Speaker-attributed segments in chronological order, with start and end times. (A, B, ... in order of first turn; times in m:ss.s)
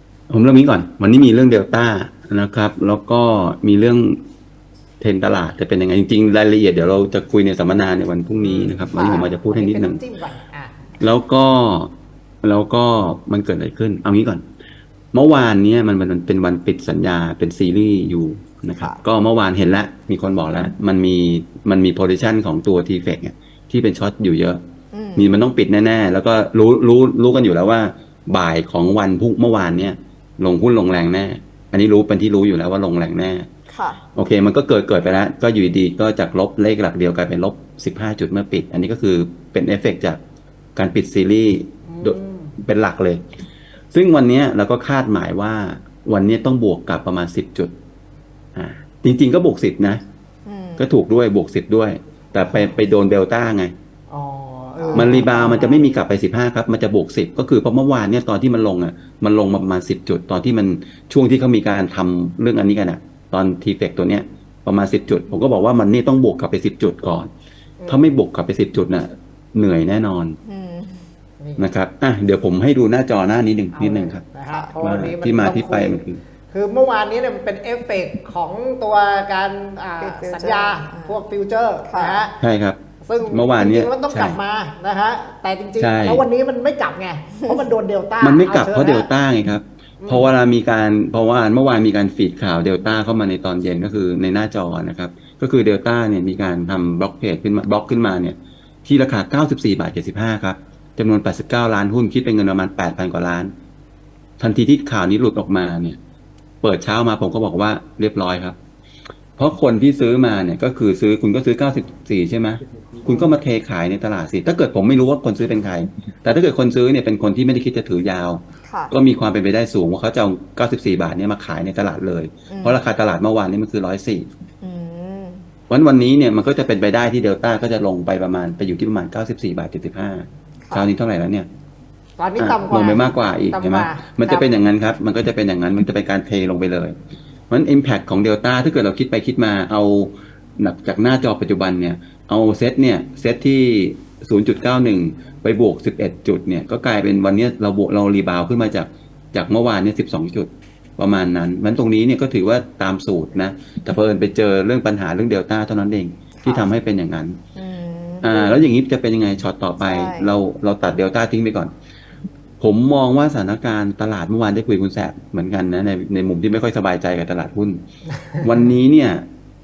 0:00.3-0:04.2 A
0:05.0-0:10.0 A
0:08.4-0:10.9 B
0:11.0-0:14.4 A
0:15.1-0:24.6 A
0:24.9-0:25.4 C
0:25.2-0:33.5 A
0:33.7-0:34.0 C
0:34.1-0:40.2 A
0:40.8-0:43.2 A
0:41.8-0:42.6 B
0:43.9-0:47.7 A
0:48.5-0:50.0 A
0:50.4-0:50.9 C
0:50.8-0:53.7 A
0:52.3-0:52.8 B
0:54.1-0:56.0 B
0:54.8-0:55.3 C
0:54.9-1:07.3 A
1:07.8-1:08.1 B
1:07.9-1:10.4 A
1:10.4-1:11.1 C
1:11.4-1:11.7 B
1:11.6-1:14.2 A
1:13.7-1:22.4 B
1:14.5-1:14.7 C
1:14.8-1:16.2 A
1:20.0-1:21.2 C
1:21.8-1:22.3 C
1:22.4-1:22.8 A
1:23.0-1:29.1 B
1:23.3-1:24.4 A
1:25.8-1:26.2 A
1:28.2-1:43.5 A
1:30.0-1:30.3 B
1:44.4-1:46.0 A
1:46.6-1:48.6 A
1:49.4-2:04.3 A
1:53.1-1:53.4 C
1:58.6-1:58.9 C
2:02.5-2:02.8 C
2:04.6-2:05.4 C
2:05.7-2:11.5 A
2:12.2-2:14.5 B
2:12.4-2:17.0 A
2:17.5-2:37.4 A
2:36.4-2:36.7 C
2:37.5-2:38.7 C
2:38.2-2:41.7 A
2:39.8-2:40.4 C
2:42.6-2:49.2 A